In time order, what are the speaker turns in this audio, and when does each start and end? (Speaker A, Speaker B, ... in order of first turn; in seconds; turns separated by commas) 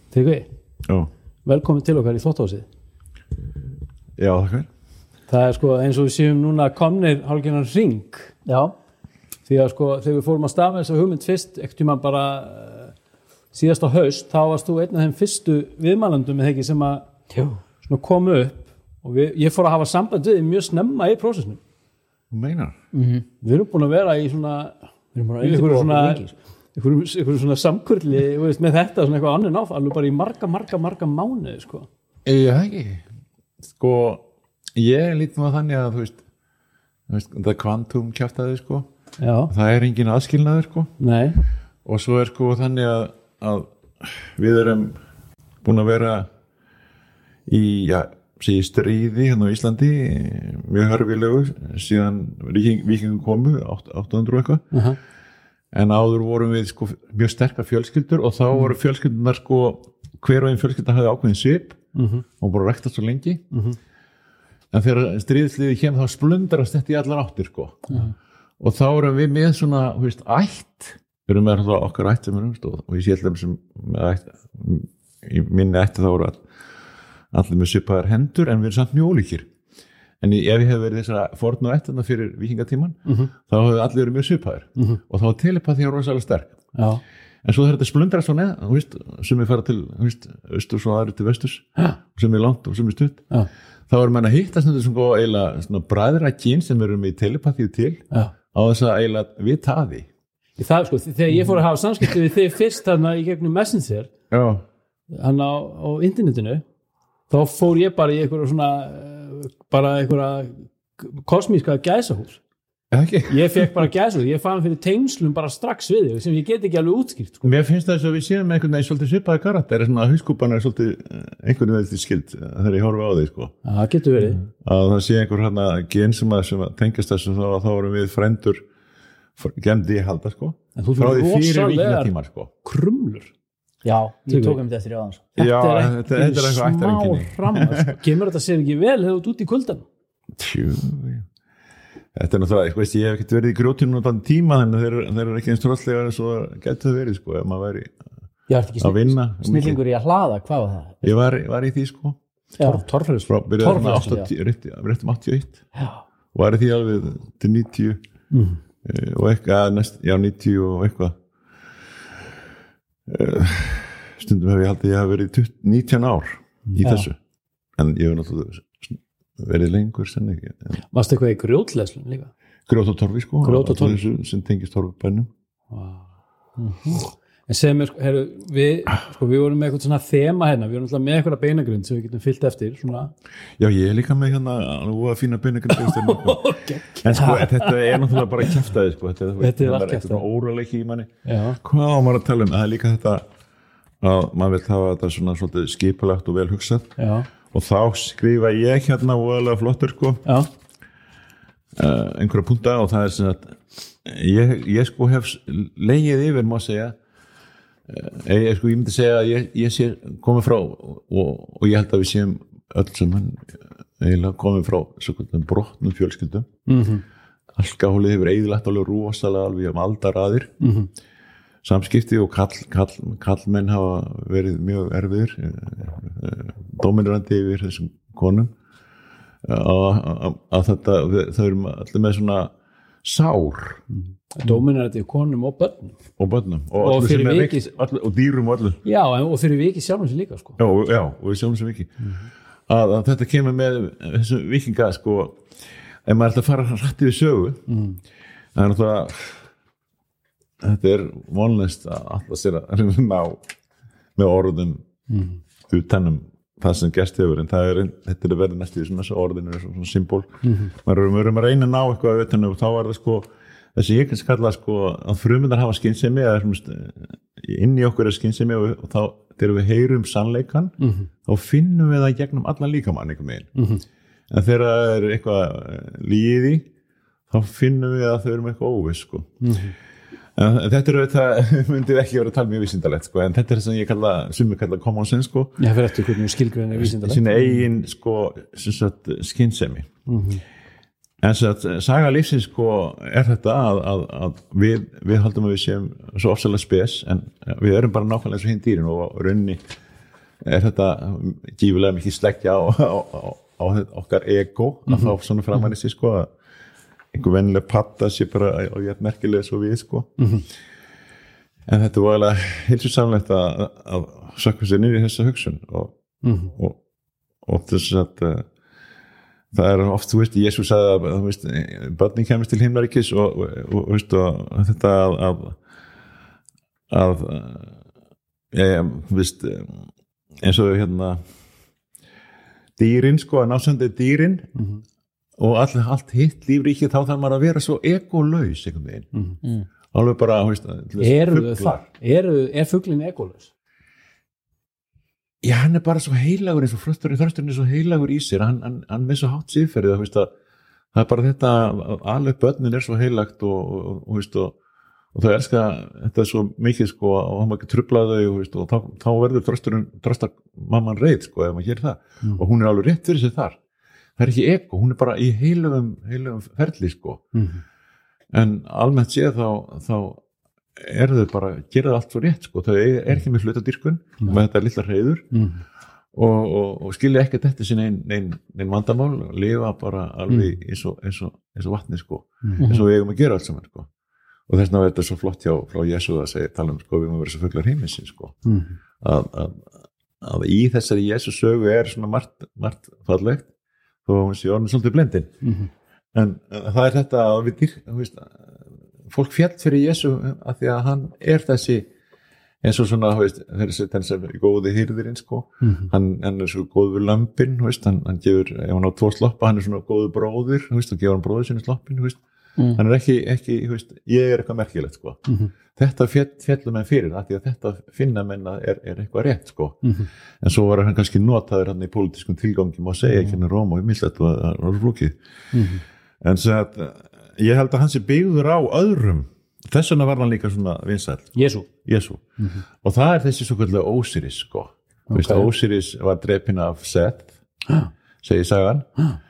Speaker A: 0.1-0.5, Speaker A: 1.4-2.7, Speaker B: 4.2-4.7, Speaker A: 5.3-8.3, Speaker C: 8.4-8.7, Speaker A: 9.5-12.9, Speaker A: 13.5-17.1, Speaker C: 17.3-17.6, Speaker A: 17.8-21.6, Speaker B: 22.3-22.8, Speaker C: 22.9-23.2, Speaker A: 23.4-24.8, Speaker C: 25.1-26.3, Speaker A: 25.4-31.9, Speaker B: 32.2-33.0, Speaker B: 33.7-34.2, Speaker B: 34.7-36.2, Speaker B: 37.1-38.9, Speaker A: 39.2-39.5, Speaker B: 39.5-40.9, Speaker A: 41.0-41.4, Speaker B: 41.8-45.0, Speaker B: 45.6-46.3, Speaker B: 47.5-54.6, Speaker A: 54.7-55.0, Speaker B: 55.7-61.8, Speaker A: 61.9-62.2, Speaker B: 62.4-63.4, Speaker A: 63.5-63.8, Speaker B: 64.7-68.0, Speaker B: 68.6-76.4, Speaker B: 77.3-79.5, Speaker B: 80.2-86.6, Speaker A: 83.0-83.3, Speaker A: 86.7-87.0, Speaker B: 87.4-93.2, Speaker B: 93.9-100.1, Speaker A: 100.6-104.1, Speaker B: 104.3-104.6, Speaker A: 105.1-106.6, Speaker A: 107.3-112.4, Speaker B: 112.9-113.8, Speaker A: 113.3-117.5, Speaker B: 117.4-123.5, Speaker A: 123.6-124.4, Speaker B: 124.5-128.6, Speaker B: 129.4-132.5, Speaker A: 130.8-132.1, Speaker A: 132.6-133.3, Speaker C: 133.8-135.5, Speaker A: 134.3-134.6, Speaker B: 135.4-137.9, Speaker A: 135.4-139.8, Speaker B: 140.4-141.3, Speaker B: 142.1-147.9, Speaker C: 148.5-151.0, Speaker B: 148.8-149.8, Speaker B: 151.0-152.2, Speaker C: 152.6-154.3, Speaker A: 152.6-153.1, Speaker B: 153.2-155.6, Speaker A: 153.7-154.0, Speaker B: 156.3-158.0, Speaker A: 158.3-158.6, Speaker B: 158.8-161.1, Speaker B: 163.1-167.2, Speaker A: 166.7-167.0, Speaker B: 167.8-170.8, Speaker A: 170.9-172.3, Speaker B: 172.7-175.3, Speaker A: 173.4-174.0, Speaker A: 175.7-176.0, Speaker A: 176.6-183.1, Speaker B: 183.6-193.2, Speaker A: 185.7-188.2, Speaker A: 189.4-190.2, Speaker A: 191.2-191.6, Speaker B: 194.0-196.9, Speaker A: 197.0-197.3, Speaker B: 197.5-200.2, Speaker B: 201.8-206.9, Speaker B: 207.9-216.5, Speaker A: 216.7-217.0, Speaker B: 217.6-220.5, Speaker A: 220.6-220.9, Speaker B: 221.6-228.5, Speaker B: 229.4-232.5, Speaker B: 233.0-233.8, Speaker A: 234.3-236.0, Speaker B: 236.2-238.8, Speaker A: 236.8-237.7, Speaker A: 238.8-240.6, Speaker B: 240.6-241.9, Speaker B: 242.7-245.4, Speaker B: 246.0-247.6, Speaker A: 247.7-248.0, Speaker B: 248.5-249.4, Speaker B: 250.6-253.4, Speaker B: 254.2-254.8, Speaker A: 255.1-255.4, Speaker B: 255.7-270.7, Speaker A: 260.4-260.7, Speaker A: 270.8-271.1, Speaker B: 271.2-273.5, Speaker A: 273.6-273.8, Speaker B: 274.3-276.6, Speaker B: 277.3-279.3, Speaker A: 279.4-279.7, Speaker B: 280.4-285.6, Speaker A: 285.6-287.6, Speaker B: 286.7-289.9, Speaker A: 290.1-290.4, Speaker B: 291.2-299.6, Speaker B: 300.4-306.3, Speaker B: 307.1-310.1, Speaker A: 310.2-310.4, Speaker B: 311.7-315.9, Speaker A: 316.2-316.5, Speaker B: 316.5-316.8, Speaker B: 317.4-318.5, Speaker B: 319.5-325.6, Speaker B: 326.9-327.7, Speaker B: 328.5-329.9, Speaker B: 330.4-331.2, Speaker B: 332.8-334.5, Speaker B: 335.4-339.1, Speaker B: 339.9-341.8, Speaker A: 341.0-343.5, Speaker B: 345.4-350.3, Speaker B: 350.9-354.5, Speaker B: 355.1-363.6, Speaker B: 364.2-367.2, Speaker A: 367.3-367.6, Speaker B: 368.3-370.2, Speaker B: 370.8-375.2, Speaker A: 375.3-375.6, Speaker B: 376.1-383.9, Speaker C: 382.6-382.8, Speaker B: 384.5-388.4, Speaker A: 388.4-388.8, Speaker B: 389.0-389.7, Speaker B: 390.2-393.5, Speaker B: 394.0-395.3, Speaker A: 395.4-395.7, Speaker B: 396.1-398.5, Speaker B: 399.1-401.9, Speaker B: 402.6-412.2, Speaker A: 405.6-405.9, Speaker B: 412.7-415.2, Speaker B: 415.7-419.8, Speaker B: 420.4-425.1, Speaker A: 423.1-423.4, Speaker A: 425.5-425.8, Speaker B: 426.2-432.2, Speaker A: 431.4-431.6, Speaker B: 432.8-437.3, Speaker A: 435.1-435.5, Speaker B: 438.2-438.9